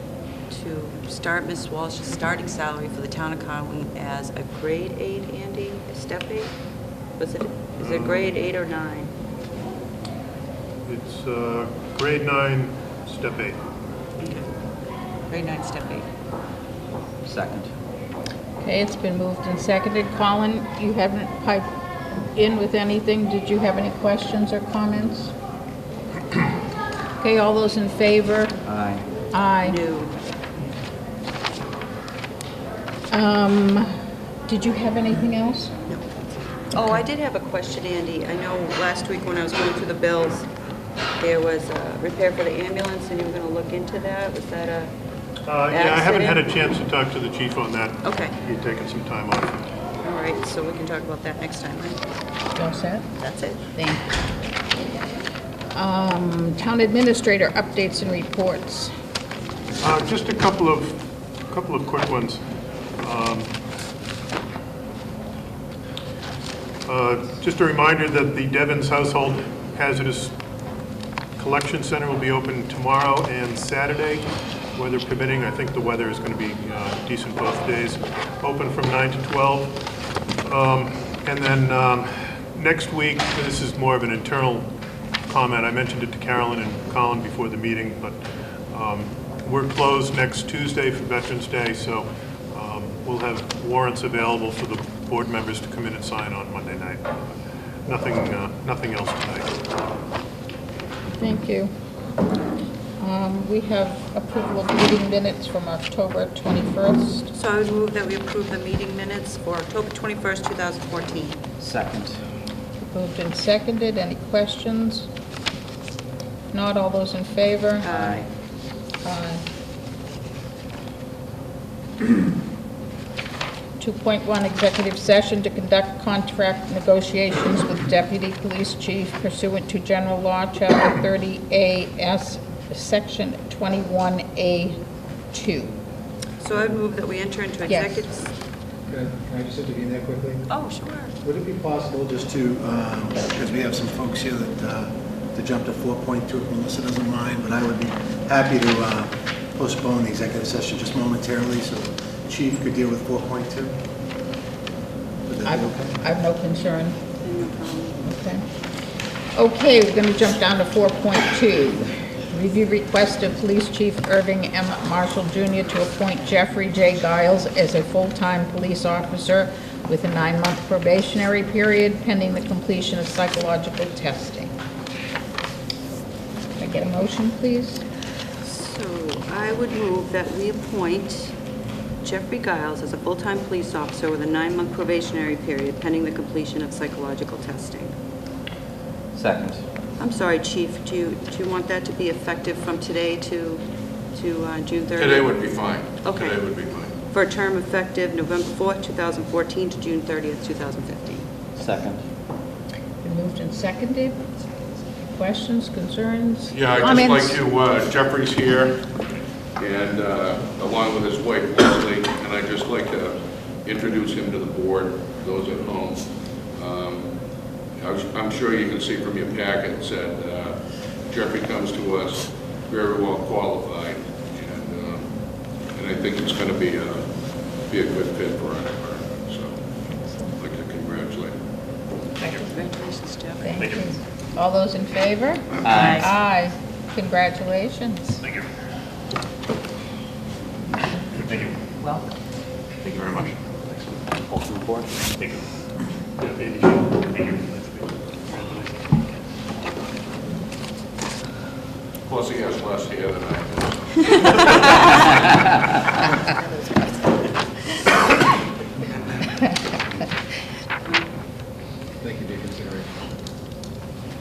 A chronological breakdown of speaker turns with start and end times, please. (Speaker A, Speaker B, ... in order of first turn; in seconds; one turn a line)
Speaker A: 0.5-6.5
Speaker A: 7.2-9.1
Speaker B: 7.8-8.3
Speaker B: 10.8-13.6
Speaker A: 14.2-14.5
Speaker A: 15.3-16.1
Speaker C: 17.2-17.7
Speaker D: 18.6-25.3
Speaker D: 27.2-28.6
Speaker C: 28.6-29.1
Speaker D: 29.3-29.8
Speaker A: 29.6-30.2
Speaker D: 33.1-33.9
Speaker D: 34.5-35.7
Speaker A: 36.7-40.5
Speaker A: 41.2-44.9
Speaker B: 45.5-49.6
Speaker A: 45.7-46.4
Speaker A: 48.0-48.4
Speaker A: 50.0-52.0
Speaker D: 52.6-53.1
Speaker A: 53.2-53.6
Speaker D: 53.7-54.1
Speaker D: 55.7-58.9
Speaker B: 59.8-62.4
Speaker B: 63.0-63.5
Speaker B: 66.9-70.3
Speaker B: 71.4-79.8
Speaker B: 80.5-84.7
Speaker B: 85.3-88.2
Speaker B: 88.7-97.2
Speaker B: 97.8-99.5
Speaker D: 101.2-101.7
Speaker D: 103.0-107.3
Speaker A: 107.3-111.4
Speaker C: 111.6-112.2
Speaker D: 112.8-115.1
Speaker D: 116.5-117.9
Speaker A: 117.8-118.2
Speaker C: 117.9-118.3
Speaker D: 119.0-119.4
Speaker D: 123.8-134.8
Speaker D: 135.3-135.7
Speaker A: 136.4-138.3
Speaker D: 137.7-138.0
Speaker E: 138.9-140.4
Speaker A: 140.5-141.1
Speaker E: 141.2-153.8
Speaker E: 155.3-156.0
Speaker D: 155.4-157.0
Speaker A: 157.2-158.2
Speaker D: 158.1-158.4
Speaker D: 159.3-174.5
Speaker D: 176.6-177.8
Speaker A: 178.4-181.3
Speaker A: 182.0-187.9
Speaker C: 189.2-189.6
Speaker A: 190.0-195.3
Speaker F: 194.9-196.9
Speaker A: 196.0-196.4
Speaker A: 197.0-201.3
Speaker C: 201.6-202.0
Speaker D: 203.0-204.3
Speaker D: 205.0-207.4
Speaker F: 206.5-208.9
Speaker F: 209.6-217.1
Speaker F: 217.8-225.1
Speaker F: 225.7-229.6
Speaker D: 229.9-230.3
Speaker F: 230.4-231.3
Speaker D: 232.2-232.5
Speaker A: 232.2-233.5
Speaker D: 233.4-238.2
Speaker C: 235.6-236.1
Speaker C: 244.3-245.0
Speaker F: 252.1-254.5
Speaker A: 256.6-257.0
Speaker E: 262.0-263.0